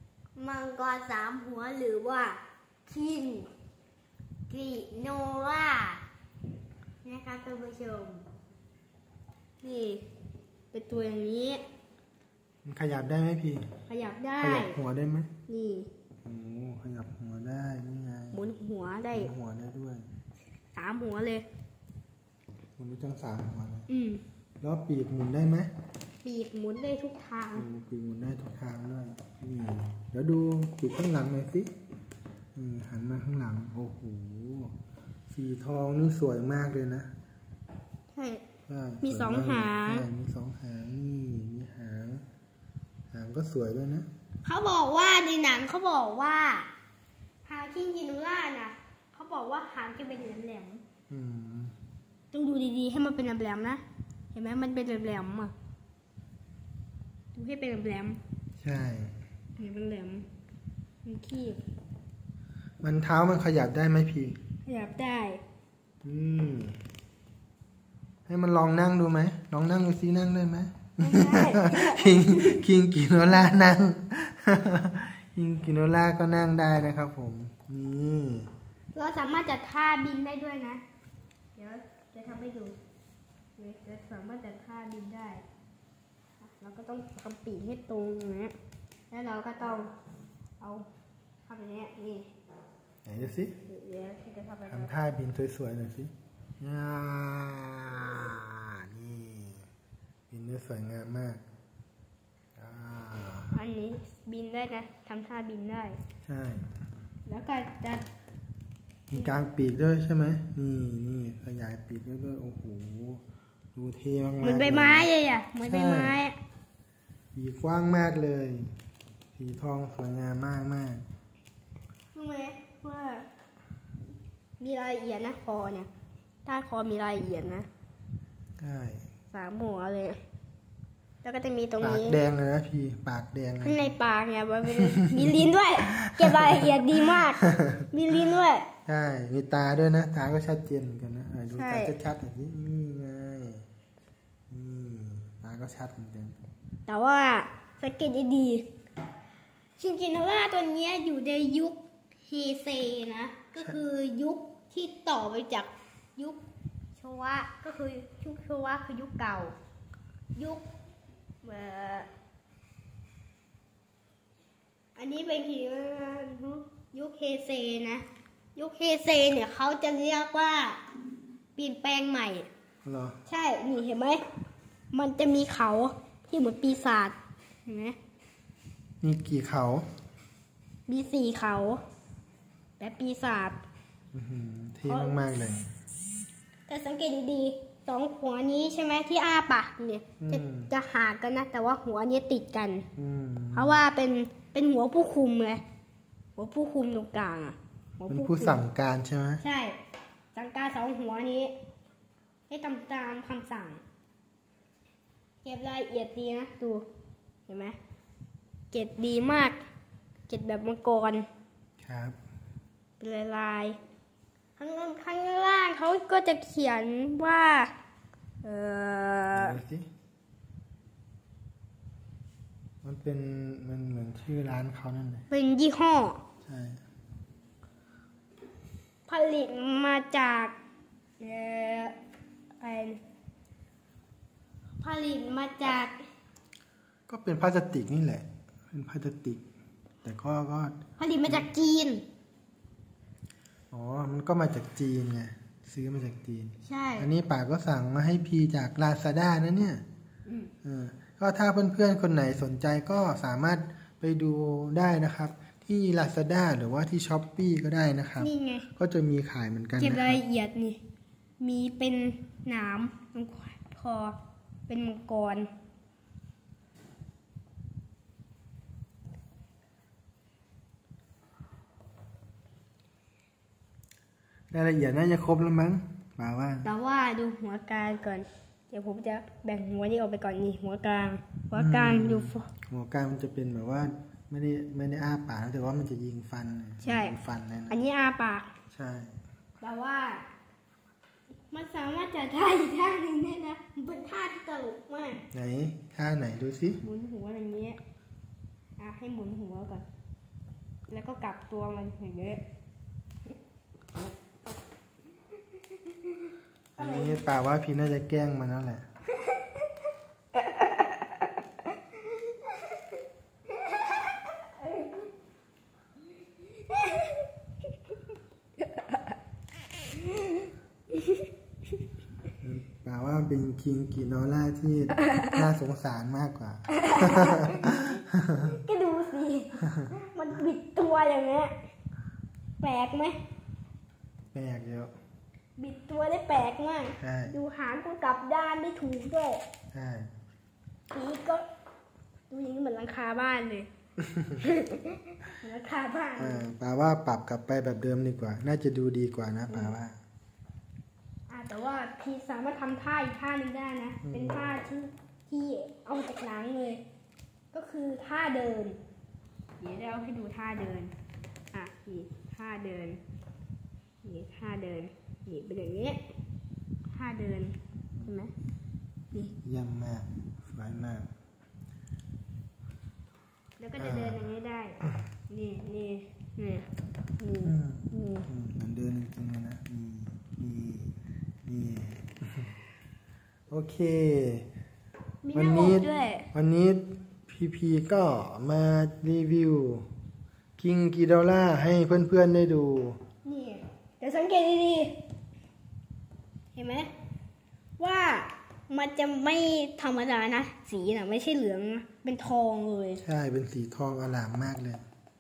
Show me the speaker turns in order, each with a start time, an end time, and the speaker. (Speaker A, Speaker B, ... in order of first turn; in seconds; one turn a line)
Speaker A: 0.4-3.5
Speaker A: 4.5-6.0
Speaker A: 7.0-8.2
Speaker A: 9.6-10.0
Speaker A: 10.7-11.6
Speaker B: 12.7-13.7
Speaker A: 13.9-14.8
Speaker B: 14.4-15.3
Speaker A: 15.5-15.9
Speaker B: 16.2-18.5
Speaker A: 18.3-19.3
Speaker B: 19.1-20.1
Speaker A: 20.8-21.4
Speaker B: 22.8-23.9
Speaker A: 23.9-24.2
Speaker B: 24.6-25.7
Speaker A: 26.2-27.7
Speaker B: 27.6-31.7
Speaker B: 32.5-34.8
Speaker B: 35.3-37.1
Speaker A: 38.1-38.4
Speaker B: 38.7-42.2
Speaker A: 39.0-40.1
Speaker B: 43.1-44.1
Speaker A: 44.4-46.7
Speaker A: 47.5-50.8
Speaker B: 51.1-51.7
Speaker A: 52.3-53.8
Speaker A: 54.3-55.5
Speaker A: 57.4-58.2
Speaker B: 58.6-59.1
Speaker A: 59.6-60.3
Speaker A: 61.0-61.6
Speaker B: 62.8-64.4
Speaker A: 64.7-65.4
Speaker B: 66.0-66.8
Speaker B: 68.3-78.5
Speaker A: 71.0-72.6
Speaker A: 78.9-80.8
Speaker A: 81.6-82.8
Speaker A: 83.6-85.4
Speaker A: 86.4-88.5
Speaker A: 89.1-89.9
Speaker A: 90.6-90.8
Speaker A: 91.5-92.3
Speaker B: 93.0-93.5
Speaker A: 93.7-94.9
Speaker B: 94.7-99.7
Speaker B: 100.3-101.4
Speaker B: 102.6-103.6
Speaker A: 103.5-106.0
Speaker B: 106.3-106.7
Speaker A: 107.3-108.0
Speaker B: 109.1-113.2
Speaker B: 113.8-115.1
Speaker A: 114.4-116.4
Speaker B: 115.6-116.2
Speaker B: 117.3-118.7
Speaker B: 119.4-121.0
Speaker A: 122.1-123.2
Speaker A: 124.6-125.9
Speaker A: 126.5-127.7
Speaker B: 128.6-129.1
Speaker A: 129.3-130.2
Speaker A: 131.2-132.2
Speaker B: 131.8-133.9
Speaker A: 133.6-138.7
Speaker B: 134.9-135.5
Speaker B: 136.0-137.9
Speaker B: 138.9-143.7
Speaker A: 141.6-141.9
Speaker B: 144.5-146.4
Speaker A: 146.9-148.6
Speaker A: 149.8-156.4
Speaker A: 157.0-159.5
Speaker A: 160.4-160.6
Speaker A: 161.4-162.1
Speaker A: 165.0-168.0
Speaker A: 168.6-170.8
Speaker A: 171.6-172.5
Speaker B: 172.8-173.2
Speaker A: 173.3-174.2
Speaker A: 174.9-178.0
Speaker B: 179.0-179.9
Speaker A: 180.9-181.8
Speaker A: 182.8-183.6
Speaker B: 184.1-185.7
Speaker A: 184.9-185.2
Speaker A: 186.7-192.9
Speaker B: 190.2-190.7
Speaker B: 193.0-193.8
Speaker A: 193.5-195.6
Speaker A: 196.4-198.6
Speaker B: 198.1-199.4
Speaker A: 199.4-199.8
Speaker A: 200.3-201.5
Speaker A: 202.5-203.8
Speaker A: 205.4-206.8
Speaker A: 207.5-207.8
Speaker A: 208.7-209.6
Speaker A: 210.3-211.3
Speaker B: 211.8-212.2
Speaker A: 213.0-213.8
Speaker A: 214.6-217.7
Speaker A: 218.4-219.6
Speaker B: 219.3-219.9
Speaker B: 222.8-225.3
Speaker A: 225.3-226.2
Speaker B: 226.5-226.8
Speaker A: 229.1-230.6
Speaker A: 231.2-231.9
Speaker A: 232.6-233.0
Speaker A: 234.8-235.9
Speaker B: 237.1-239.4
Speaker B: 240.0-241.5
Speaker A: 241.0-242.0
Speaker B: 243.7-249.8
Speaker A: 246.6-247.1
Speaker B: 250.6-260.2
Speaker A: 258.2-258.7
Speaker A: 259.8-260.8
Speaker A: 261.4-264.2
Speaker A: 264.7-265.5
Speaker B: 274.5-276.7
Speaker A: 276.6-282.5
Speaker B: 281.6-287.8
Speaker A: 286.8-287.2
Speaker A: 287.7-288.5
Speaker B: 288.7-289.2
Speaker A: 289.6-290.2
Speaker A: 291.5-295.2
Speaker B: 295.3-296.8
Speaker A: 296.8-297.8
Speaker A: 298.8-299.9
Speaker A: 300.9-302.4
Speaker B: 306.8-308.9
Speaker A: 306.8-307.3
Speaker A: 316.7-317.1
Speaker A: 320.9-321.2
Speaker B: 322.4-328.6
Speaker A: 326.7-331.5
Speaker B: 329.6-329.9
Speaker A: 332.6-333.2
Speaker B: 334.3-334.9
Speaker A: 335.6-339.4
Speaker B: 337.0-337.4
Speaker B: 339.7-340.1
Speaker A: 340.9-341.4
Speaker A: 342.3-343.7
Speaker B: 344.0-344.4
Speaker A: 344.4-346.4
Speaker B: 346.2-350.0
Speaker A: 351.3-356.8
Speaker B: 354.0-354.5
Speaker A: 357.5-358.8
Speaker A: 359.6-360.9
Speaker A: 361.5-363.0
Speaker A: 364.0-366.0
Speaker A: 366.9-368.3
Speaker B: 369.4-371.1
Speaker A: 373.6-376.7
Speaker B: 373.8-374.2
Speaker A: 377.2-378.3
Speaker B: 377.4-380.9
Speaker B: 381.5-382.5
Speaker B: 383.5-384.5
Speaker A: 385.2-386.3
Speaker B: 385.3-389.9
Speaker B: 390.6-393.0
Speaker A: 393.2-394.9
Speaker A: 396.6-396.9
Speaker A: 397.8-403.0
Speaker B: 403.0-404.9